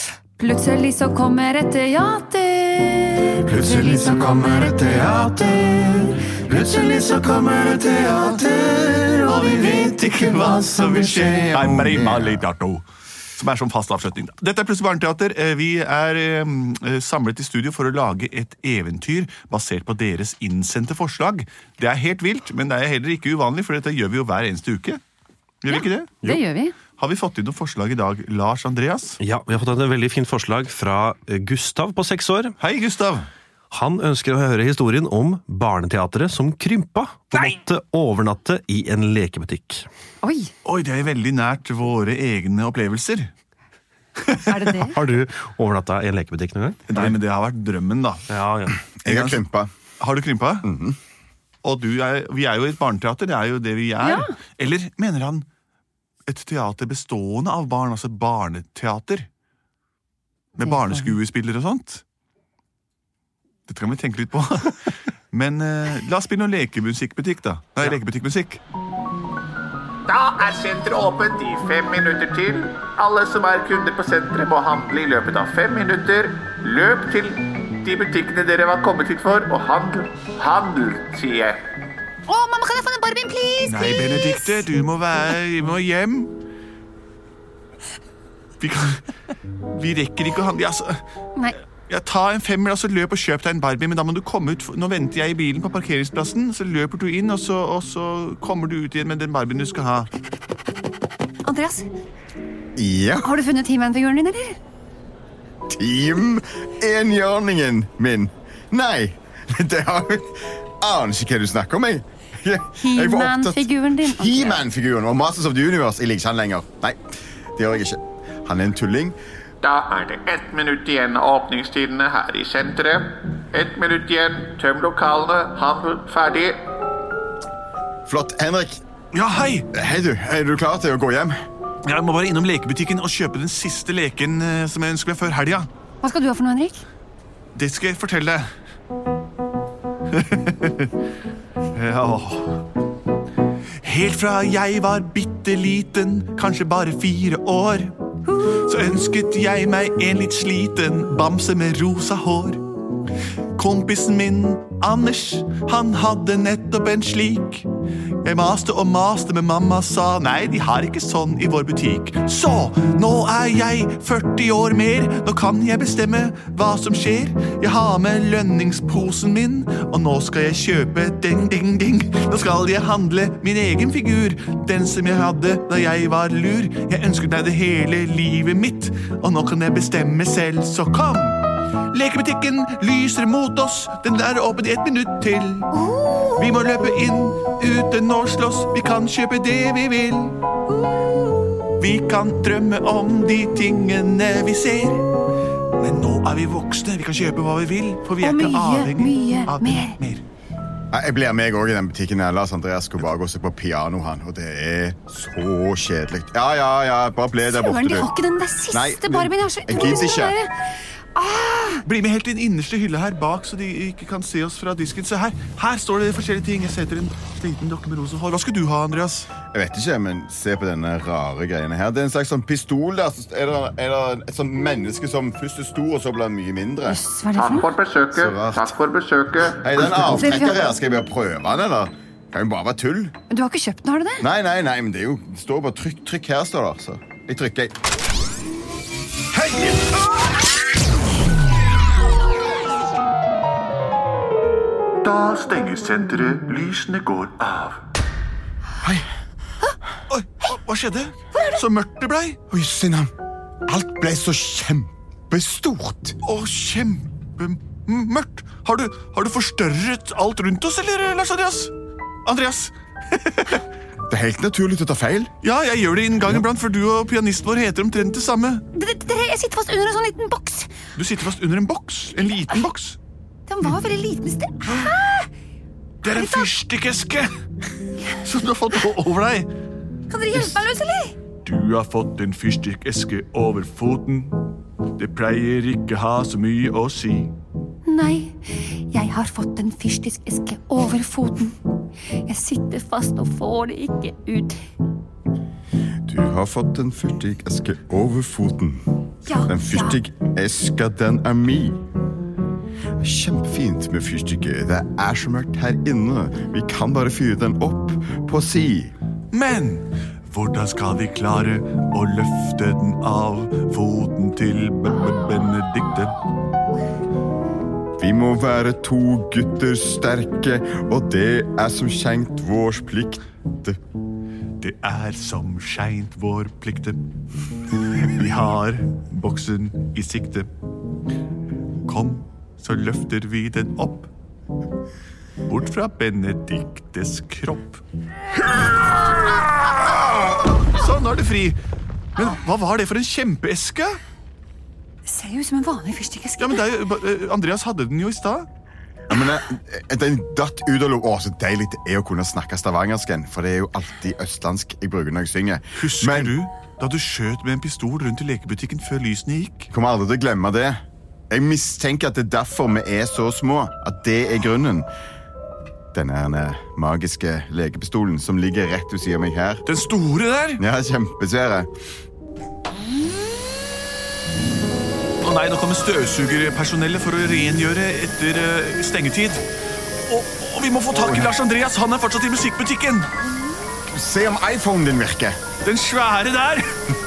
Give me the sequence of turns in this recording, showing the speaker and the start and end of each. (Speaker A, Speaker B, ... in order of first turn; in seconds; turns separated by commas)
Speaker A: 0.4-4.9, Speaker B: 3.5-12.3, Speaker C: 9.3-12.8, Speaker C: 13.3-25.0, Speaker C: 25.6-26.2, Speaker A: 25.7-26.8, Speaker C: 27.0-29.2, Speaker D: 29.2-32.5, Speaker C: 32.6-33.3, Speaker D: 33.7-39.9, Speaker A: 40.2-40.5, Speaker C: 40.6-43.3, Speaker C: 44.2-44.5, Speaker A: 44.5-45.0, Speaker D: 44.9-47.1, Speaker C: 46.9-48.2, Speaker D: 48.3-48.8, Speaker B: 49.0-49.7, Speaker C: 49.0-49.4, Speaker C: 50.0-50.7, Speaker B: 50.6-51.0, Speaker C: 51.6-55.5, Speaker A: 54.0-54.3, Speaker C: 56.3-59.3, Speaker C: 60.5-62.0, Speaker C: 63.7-68.6, Speaker E: 70.1-81.6, Speaker A: 82.3-84.6, Speaker C: 83.7-86.3, Speaker C: 88.6-89.0, Speaker C: 89.7-91.0, Speaker C: 91.9-100.1, Speaker A: 101.4-101.9, Speaker B: 102.8-103.3, Speaker A: 103.2-104.6, Speaker B: 105.7-117.0, Speaker A: 112.8-114.6, Speaker B: 117.5-119.2, Speaker E: 119.6-126.6, Speaker B: 128.1-128.8, Speaker C: 129.1-129.7, Speaker B: 129.7-131.3, Speaker C: 131.8-135.7, Speaker A: 136.0-136.8, Speaker C: 137.5-138.5, Speaker C: 140.1-140.9, Speaker C: 141.7-142.6, Speaker C: 143.8-147.9, Speaker C: 148.5-152.6, Speaker C: 153.5-157.7, Speaker C: 158.2-181.4, Speaker C: 181.9-185.7, Speaker A: 185.7-186.5, Speaker C: 186.3-190.4, Speaker A: 190.8-191.2, Speaker C: 191.8-195.0, Speaker C: 195.8-200.2, Speaker A: 198.2-200.0, Speaker B: 200.9-208.1, Speaker A: 207.5-210.6, Speaker B: 208.7-210.3, Speaker A: 211.1-211.8, Speaker C: 211.8-219.3, Speaker B: 219.5-227.0, Speaker A: 226.8-227.7, Speaker E: 227.3-230.1, Speaker B: 228.1-228.7, Speaker B: 229.5-233.1, Speaker A: 230.1-230.6, Speaker A: 233.3-234.2, Speaker B: 234.2-237.7, Speaker C: 239.3-240.0, Speaker C: 245.0-247.8, Speaker C: 250.1-252.4, Speaker B: 252.5-253.1, Speaker B: 253.7-256.2, Speaker C: 256.2-261.7, Speaker C: 262.2-263.6, Speaker B: 264.1-265.3, Speaker C: 265.4-268.6, Speaker A: 268.7-270.7, Speaker C: 270.9-273.0, Speaker A: 273.5-275.3, Speaker C: 276.0-277.3, Speaker A: 276.1-276.5, Speaker C: 278.2-279.5, Speaker A: 280.1-281.2, Speaker C: 280.3-280.6, Speaker C: 281.4-284.4, Speaker C: 285.0-287.3, Speaker A: 287.9-291.6, Speaker A: 292.1-294.6, Speaker B: 296.0-298.8, Speaker A: 299.2-300.0, Speaker B: 299.4-301.8, Speaker B: 303.0-308.9, Speaker C: 309.3-316.1, Speaker B: 318.0-323.8, Speaker C: 324.6-327.0, Speaker C: 327.9-330.5, Speaker C: 331.8-334.1, Speaker C: 335.4-337.8, Speaker C: 340.7-341.6, Speaker C: 342.1-344.0, Speaker A: 345.1-346.7, Speaker C: 346.4-348.5, Speaker B: 349.1-356.3, Speaker C: 355.7-359.7, Speaker B: 359.7-364.9, Speaker B: 365.9-369.6, Speaker C: 369.6-370.6, Speaker B: 370.6-371.7, Speaker C: 375.2-379.4, Speaker C: 380.0-383.1, Speaker B: 380.9-381.3, Speaker B: 383.9-385.4, Speaker C: 385.6-386.8